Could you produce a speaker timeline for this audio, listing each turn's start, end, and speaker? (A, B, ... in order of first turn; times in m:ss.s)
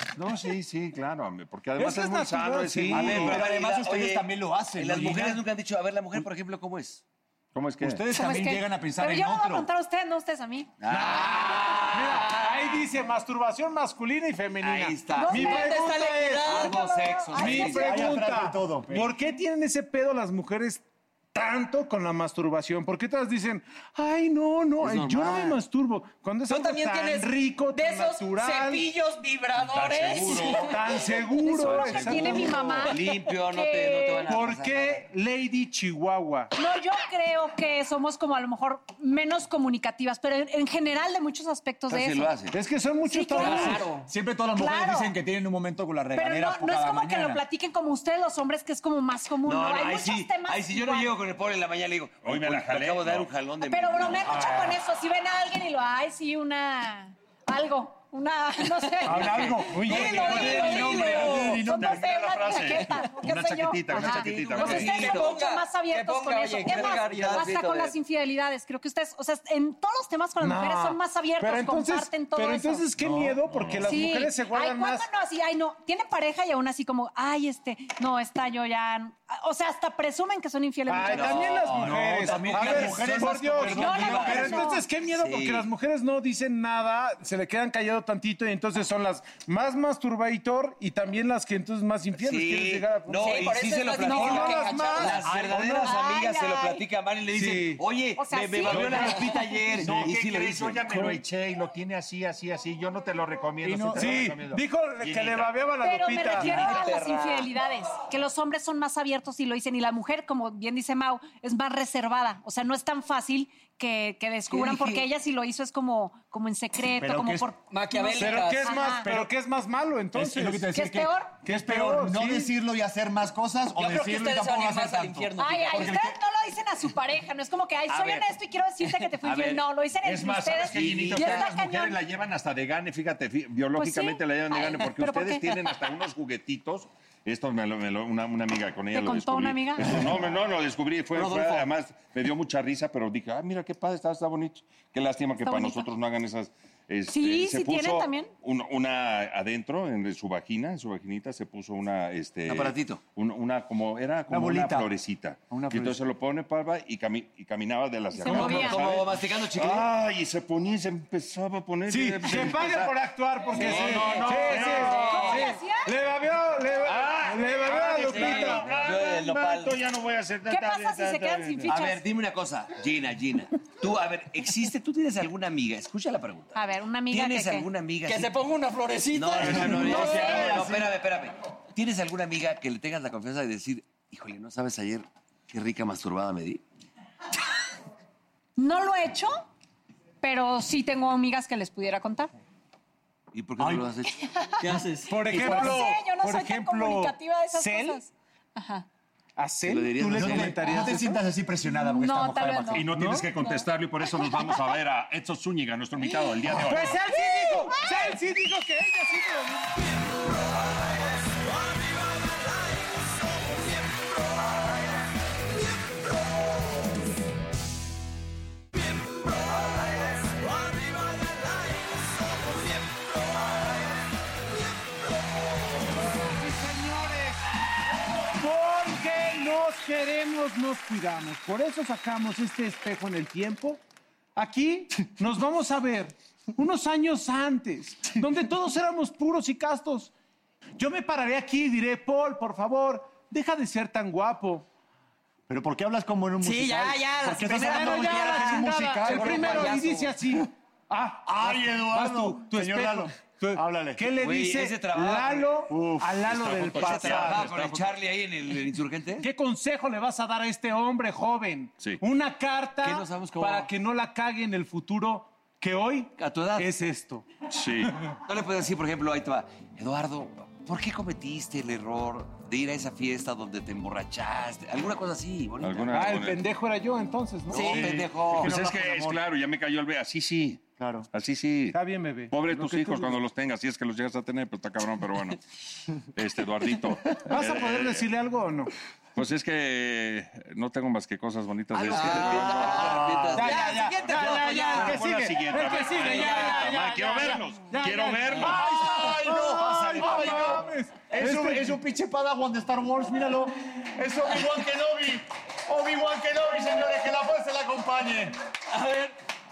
0:00.1-0:03.4 A
0:01.8-0:03.4 B
0:02.9-0:05.4 C
0:02.9-0:07.0 D
0:07.5-0:08.0 A
0:07.8-0:09.7 C
0:08.1-0:10.7 E
0:10.8-0:12.6 D
0:10.9-0:16.7 B
0:14.6-0:15.6 D
0:15.2-0:18.0 E
0:15.3-0:17.0 F
0:16.4-0:18.1 D
0:17.3-0:28.9 B
0:17.7-0:19.1 C
0:24.8-0:25.6 D
0:26.5-0:30.6 F
0:29.6-0:30.8 A
0:30.6-0:32.9 B
0:31.4-0:34.3 E
0:31.6-0:35.1 D
0:31.7-0:32.4 A
0:34.2-0:36.5 B
0:36.5-0:42.3 E
0:41.9-0:42.6 D
0:42.5-0:44.0 B
0:43.1-0:43.9 E
0:43.3-0:44.0 F
0:44.0-0:47.4 C
0:44.6-0:45.1 E
0:46.1-0:51.1 E
0:49.4-0:54.4 D
0:52.2-0:53.3 A
0:53.7-1:12.9 E
0:54.2-0:54.8 C
0:59.0-1:02.0 C
0:59.6-1:01.0 B
0:59.8-1:01.6 F
1:00.7-1:00.9 D
1:01.6-1:04.9 A
1:04.0-1:05.4 D
1:04.4-1:07.6 F
1:06.6-1:07.9 D
1:10.4-1:15.1 B
1:13.0-1:13.4 C
1:13.5-1:14.0 A
1:13.8-1:21.7 E
1:20.9-1:35.9 B
1:21.0-1:25.7 D
1:21.7-1:24.7 C
1:23.6-1:24.8 E
1:32.1-1:41.1 D
1:33.2-1:35.2 F
1:34.1-1:35.2 E
1:35.8-1:36.8 E
1:37.3-1:37.8 B
1:38.2-1:39.5 E
1:38.7-1:39.0 A
1:39.7-1:45.6 A
1:39.8-1:40.1 C
1:43.6-1:44.2 C
1:43.9-1:46.8 B
1:45.8-1:59.1 E
1:46.4-1:47.5 D
1:54.5-1:55.0 D
1:57.0-1:57.5 C
1:57.7-1:58.7 F
1:58.1-2:00.7 B
1:59.0-1:59.3 C
2:00.1-2:06.1 C
2:00.7-2:01.3 E
2:01.4-2:02.5 B
2:03.7-2:05.9 F
2:05.4-2:12.0 E
2:07.9-2:08.3 D
2:09.2-2:09.6 D
2:10.0-2:42.9 A
2:10.6-2:11.5 D
2:13.8-2:15.7 E
2:18.9-2:20.0 E
2:21.1-2:21.7 D
2:25.4-2:25.8 E
2:27.1-2:28.3 E
2:32.5-2:33.0 D
2:34.3-2:34.9 C
2:35.5-2:36.0 C
2:38.1-2:38.8 E
2:38.3-2:39.9 D
2:41.9-2:48.8 B
2:43.5-2:44.9 A
2:43.5-2:45.4 D
2:44.6-2:45.9 E
2:44.9-2:45.4 F
2:46.8-2:49.8 D
2:47.6-2:51.7 A
2:48.2-2:48.4 F
2:50.5-2:52.0 E
2:51.6-2:56.6 D
2:56.5-2:57.7 E
2:57.1-2:58.3 D
2:58.0-3:00.3 F
2:59.1-3:06.6 D
2:59.4-3:01.0 C
2:59.4-2:59.7 A
2:59.9-3:00.4 E
3:08.6-3:09.3 E
3:10.2-3:12.3 E
3:13.3-3:14.1 D
3:13.6-3:13.9 C
3:14.1-3:14.7 E
3:14.6-3:15.2 F
3:15.0-3:18.0 B
3:15.2-3:18.8 E
3:15.4-3:15.7 C
3:19.4-3:21.2 B
3:19.6-3:20.9 D
3:20.1-3:23.0 C
3:21.8-3:22.8 E
3:22.7-3:27.0 A
3:22.9-3:23.3 B
3:26.4-3:29.8 B
3:46.1-3:47.4 B
3:48.4-3:53.8 B
3:54.4-4:00.1 B
4:00.8-4:04.6 B
4:05.5-4:09.8 C
4:06.4-4:10.1 F
4:07.4-4:17.5 B
4:11.2-4:14.1 C
4:14.2-4:15.6 D
4:15.7-4:16.3 C
4:16.3-4:17.9 A
4:16.8-4:19.3 D
4:19.2-4:27.2 B
4:22.8-4:23.7 D
4:26.2-4:26.7 D
4:27.5-4:27.9 A
4:28.2-4:36.2 D
4:35.6-4:36.4 A
4:35.9-4:38.0 B
4:37.5-4:37.9 F
4:37.5-4:38.5 D
4:37.5-4:39.2 C
4:38.3-4:45.4 A
4:40.8-4:41.1 C
4:41.7-4:43.2 B
4:45.9-4:48.1 A
4:47.2-4:48.7 B
4:49.2-4:53.0 A
4:51.7-4:54.2 D
4:51.9-4:54.9 F
4:52.6-4:53.5 C
4:53.4-5:01.8 B
4:54.4-4:58.7 A
4:56.1-4:56.6 F
4:58.4-5:08.4 C
5:08.7-5:09.1 F